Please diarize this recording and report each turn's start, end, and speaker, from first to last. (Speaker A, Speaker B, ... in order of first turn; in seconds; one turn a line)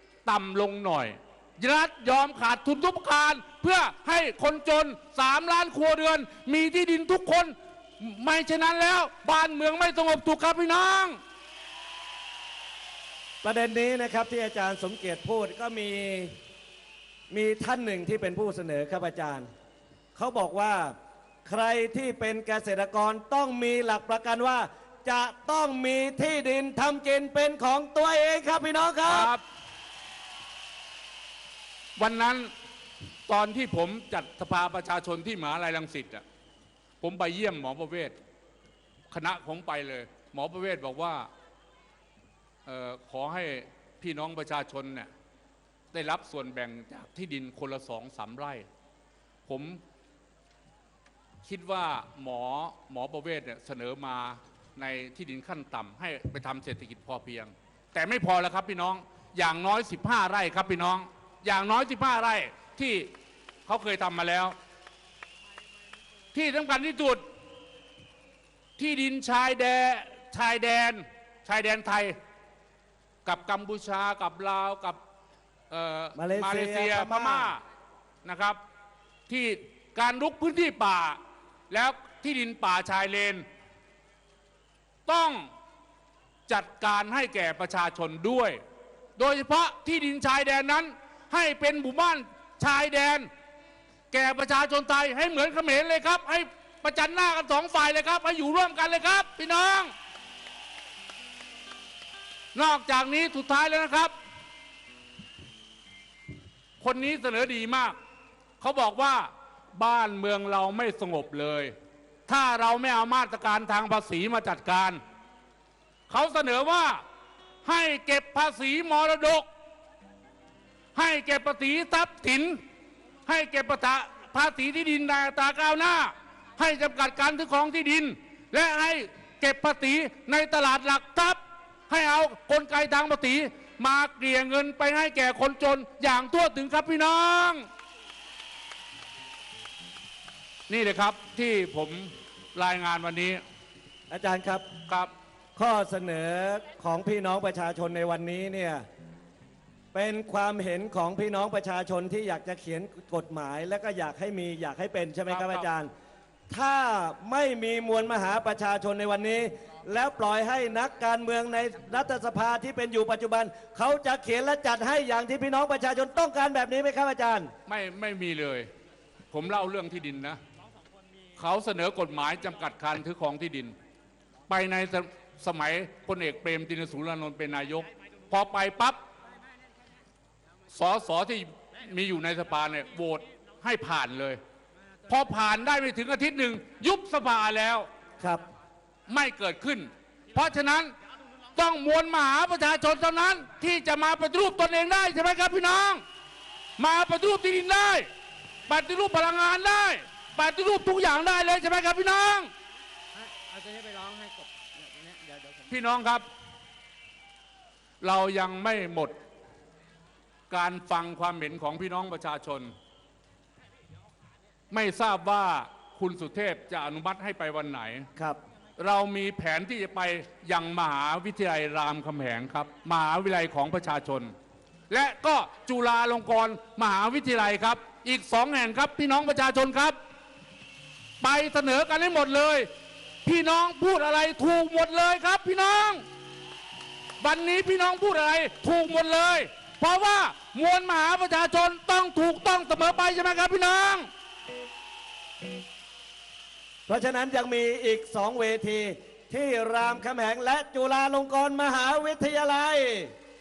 Speaker A: 0.2-11.2
Speaker B: 13.4-16.3
Speaker B: 17.3-19.5
Speaker B: 20.1-20.9
Speaker B: 21.4-29.3
Speaker A: 29.1-29.4
Speaker A: 32.0-32.5
Speaker A: 33.3-36.2
Speaker A: 37.0-38.1
Speaker A: 39.1-41.3
Speaker A: 42.6-45.1
Speaker A: 45.9-48.6
Speaker A: 49.5-49.8
Speaker A: 51.4-63.1
Speaker A: 63.6-64.5
Speaker A: 66.3-67.2
Speaker A: 68.8-72.1
Speaker A: 73.2-75.0
Speaker A: 75.7-77.6
Speaker B: 76.1-77.5
Speaker A: 78.2-78.6
Speaker A: 79.3-83.4
Speaker A: 85.0-85.5
Speaker A: 86.5-88.6
Speaker A: 89.2-93.3
Speaker A: 94.1-99.9
Speaker A: 102.5-104.1
Speaker A: 106.8-108.0
Speaker A: 108.6-111.7
Speaker A: 112.3-115.0
Speaker A: 116.1-117.0
Speaker A: 117.6-119.5
Speaker A: 120.9-122.6
Speaker A: 123.2-137.6
Speaker A: 140.7-143.4
Speaker B: 144.1-144.7
Speaker B: 145.6-148.8
Speaker B: 149.9-155.9
Speaker A: 155.3-155.7
Speaker B: 156.5-167.5
Speaker A: 167.7-168.7
Speaker A: 169.3-170.4
Speaker A: 171.3-173.7
Speaker A: 174.5-179.0
Speaker A: 180.7-184.4
Speaker A: 185.1-187.9
Speaker A: 189.1-190.9
Speaker A: 191.5-196.0
Speaker A: 196.8-198.1
Speaker A: 198.7-202.5
Speaker C: 203.2-205.6
Speaker A: 205.7-206.2
Speaker A: 208.0-209.1
Speaker A: 210.5-212.7
Speaker A: 214.7-218.1
Speaker A: 218.8-224.3
Speaker A: 224.9-230.0
Speaker A: 231.2-232.7
Speaker A: 233.2-236.0
Speaker A: 237.2-244.1
Speaker B: 246.9-253.1